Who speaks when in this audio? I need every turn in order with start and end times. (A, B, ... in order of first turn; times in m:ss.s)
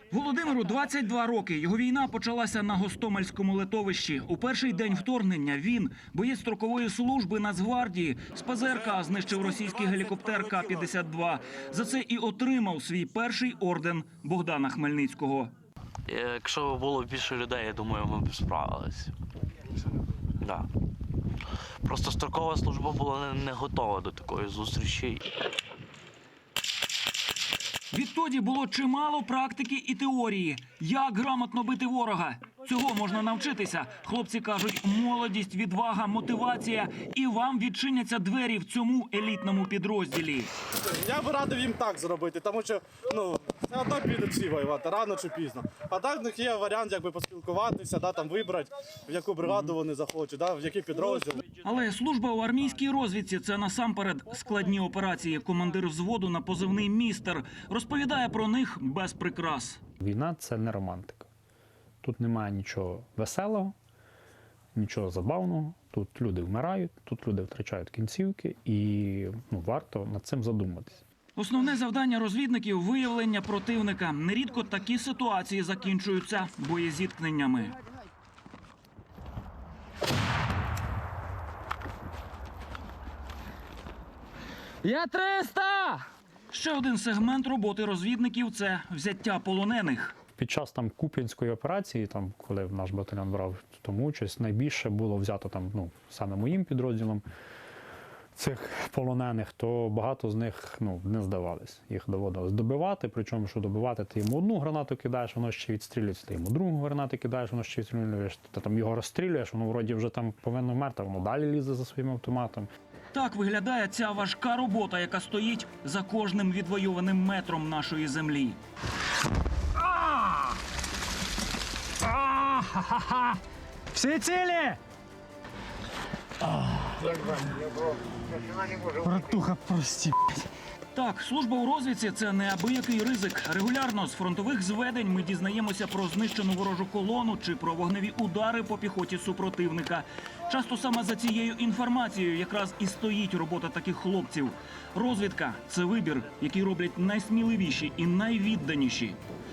0:00.1-0:15.5 A
0:16.1-0:19.1 B
0:20.4-0:20.7 B
0:21.8-0:25.2 B
0:27.9-0:40.5 A
0:41.0-0:51.4 C
0:51.6-0:59.8 A
1:00.0-1:01.3 D
1:02.0-1:03.7 D
1:04.7-1:11.0 D
1:11.3-1:17.8 A
1:24.8-1:26.0 E
1:26.5-1:30.2 A
1:30.4-1:37.2 D
1:38.4-1:52.7 D
1:53.1-1:58.6 A
2:02.3-2:03.0 E
2:03.9-2:04.8 E
2:08.8-2:10.2 E
2:10.9-2:29.2 A